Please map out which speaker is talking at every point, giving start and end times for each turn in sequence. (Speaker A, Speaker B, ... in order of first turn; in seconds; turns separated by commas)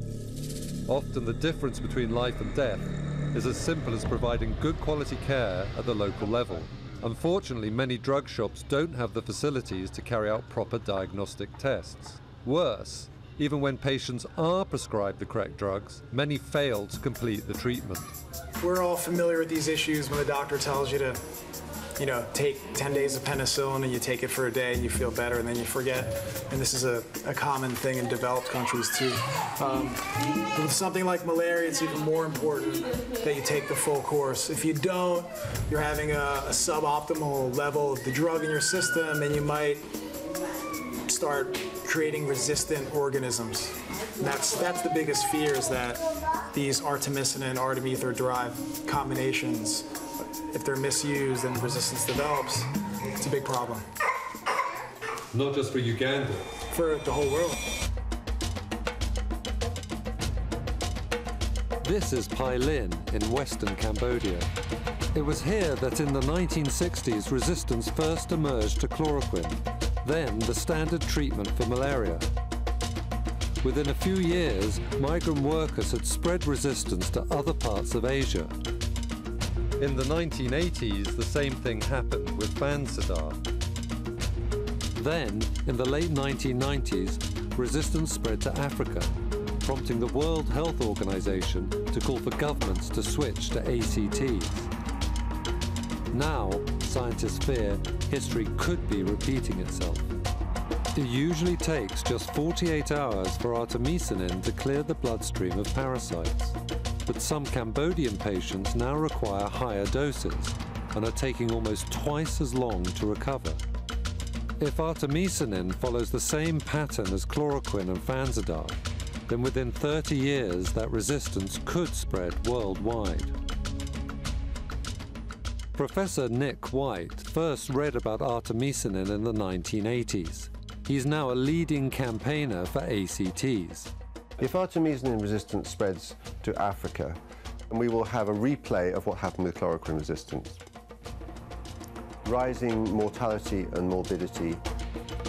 Speaker A: 0.9-18.1, Speaker B: 18.5-21.2, Speaker B: 22.0-39.9, Speaker B: 41.1-53.9, Speaker A: 55.3-56.5, Speaker B: 56.7-57.6, Speaker A: 61.8-64.5, Speaker A: 65.1-72.3, Speaker A: 73.6-78.5, Speaker A: 79.8-83.4, Speaker A: 85.0-94.7, Speaker A: 96.1-100.1, Speaker A: 100.9-113.6, Speaker A: 114.6-123.3, Speaker A: 125.7-133.9, Speaker C: 134.4-137.2, Speaker C: 137.7-140.6, Speaker C: 142.2-144.6